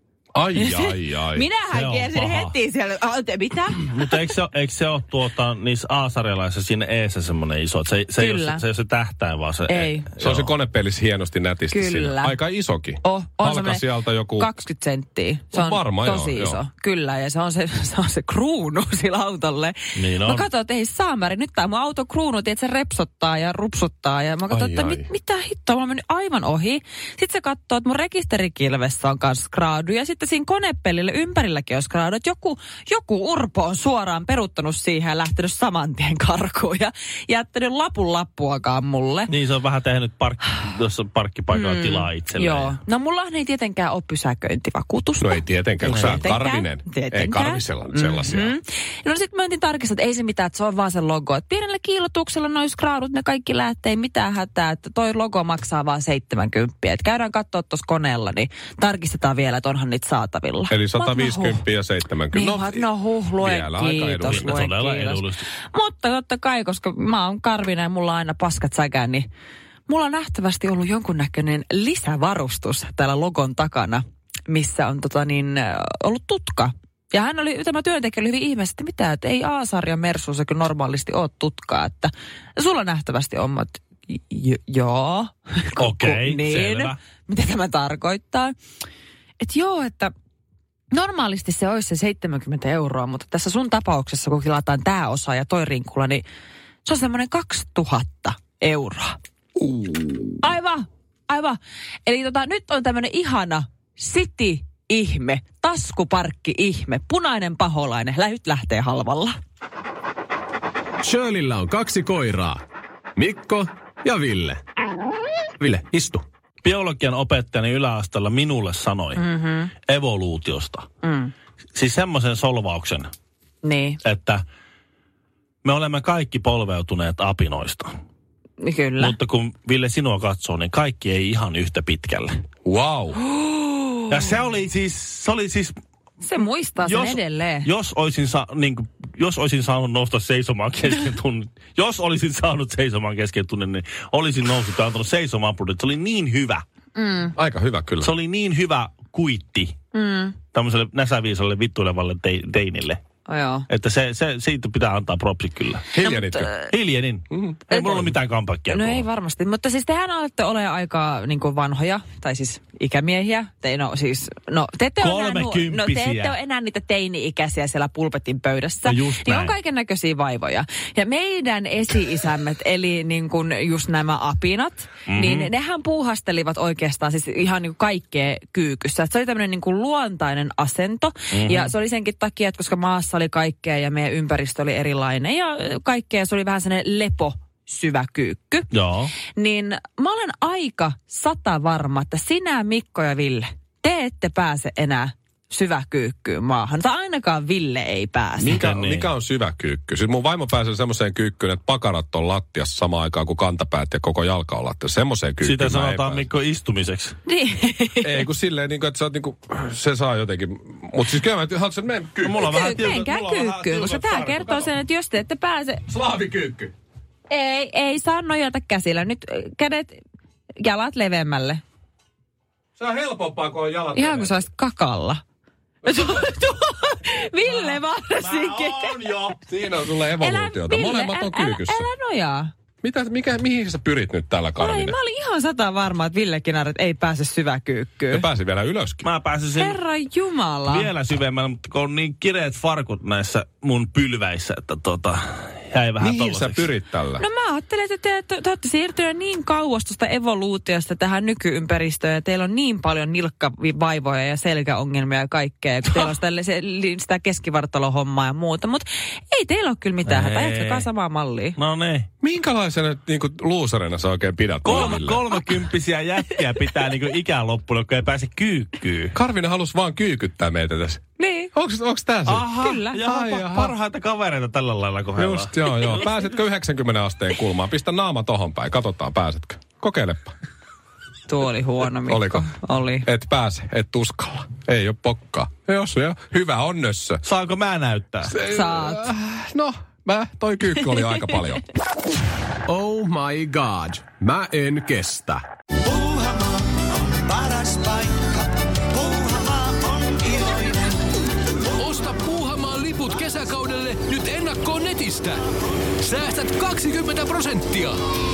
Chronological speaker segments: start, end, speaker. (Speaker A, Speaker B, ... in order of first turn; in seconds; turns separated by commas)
Speaker A: 0.3-1.5, Speaker B: 0.6-4.2, Speaker C: 1.7-2.5, Speaker C: 3.8-10.5, Speaker B: 8.2-8.6, Speaker B: 9.7-10.1, Speaker A: 10.2-14.5, Speaker B: 11.7-12.4, Speaker B: 13.0-39.3, Speaker A: 15.5-16.6, Speaker C: 19.9-20.4, Speaker A: 24.5-25.1, Speaker C: 39.3-42.8, Speaker B: 41.5-61.6, Speaker A: 45.2-48.6, Speaker C: 45.9-46.3, Speaker A: 60.7-62.8, Speaker B: 62.3-69.3, Speaker A: 63.4-64.6, Speaker C: 64.2-65.5, Speaker B: 69.9-88.5, Speaker C: 85.8-87.0, Speaker B: 89.4-90.1, Speaker B: 90.9-96.2, Speaker B: 96.8-99.2, Speaker A: 99.6-100.4, Speaker B: 100.4-109.3, Speaker D: 111.0-112.6, Speaker D: 113.2-114.6, Speaker D: 115.6-116.2, Speaker C: 116.6-119.2, Speaker B: 119.2-119.7, Speaker C: 119.8-120.8, Speaker B: 121.0-121.3, Speaker C: 121.8-123.1, Speaker B: 123.6-124.0, Speaker C: 124.0-124.4, Speaker C: 125.6-127.9, Speaker B: 128.6-129.2, Speaker C: 129.0-132.3, Speaker A: 132.6-133.2, Speaker B: 133.3-134.0, Speaker C: 134.1-135.8, Speaker B: 136.2-137.7, Speaker C: 136.8-146.6, Speaker B: 146.9-147.3, Speaker A: 147.3-148.1, Speaker C: 148.0-149.8, Speaker B: 149.9-150.3, Speaker C: 150.5-153.0, Speaker B: 153.3-153.7, Speaker C: 153.7-155.9, Speaker A: 155.9-156.5, Speaker B: 155.9-156.7, Speaker C: 156.7-159.1, Speaker A: 157.3-157.6, Speaker B: 157.7-158.1, Speaker B: 158.7-188.7, Speaker C: 165.0-166.4, Speaker C: 168.8-169.5, Speaker C: 175.1-175.5, Speaker C: 181.3-181.7, Speaker C: 188.7-189.1, Speaker B: 189.3-198.6, Speaker C: 198.4-199.1, Speaker A: 198.4-206.2, Speaker C: 205.4-207.2, Speaker B: 207.2-208.3, Speaker A: 208.0-212.7, Speaker C: 212.2-214.7, Speaker B: 212.4-215.8, Speaker A: 215.9-216.7, Speaker B: 217.3-220.0, Speaker B: 220.6-221.6, Speaker A: 222.8-224.4, Speaker B: 223.9-225.2, Speaker B: 225.8-229.0, Speaker C: 227.4-229.3, Speaker A: 229.4-231.9, Speaker B: 230.2-232.5, Speaker A: 232.8-235.0, Speaker B: 234.6-238.3, Speaker A: 238.1-239.0, Speaker C: 239.0-239.8, Speaker B: 239.5-240.9, Speaker C: 240.7-246.7, Speaker A: 246.0-247.2, Speaker B: 247.2-261.6, Speaker C: 260.0-260.9, Speaker C: 261.6-262.1, Speaker A: 262.2-265.2, Speaker C: 264.6-269.1, Speaker B: 264.8-265.0, Speaker A: 269.1-271.0, Speaker B: 271.2-271.5, Speaker A: 271.5-273.7, Speaker C: 272.2-276.0, Speaker B: 272.6-273.0, Speaker A: 275.2-280.3, Speaker B: 281.3-283.1, Speaker A: 282.1-282.5, Speaker A: 283.0-287.2, Speaker C: 287.2-288.4, Speaker A: 288.3-291.6, Speaker B: 288.4-289.1, Speaker D: 292.7-295.4, Speaker E: 295.8-301.0, Speaker F: 301.8-305.5, Speaker F: 306.0-307.9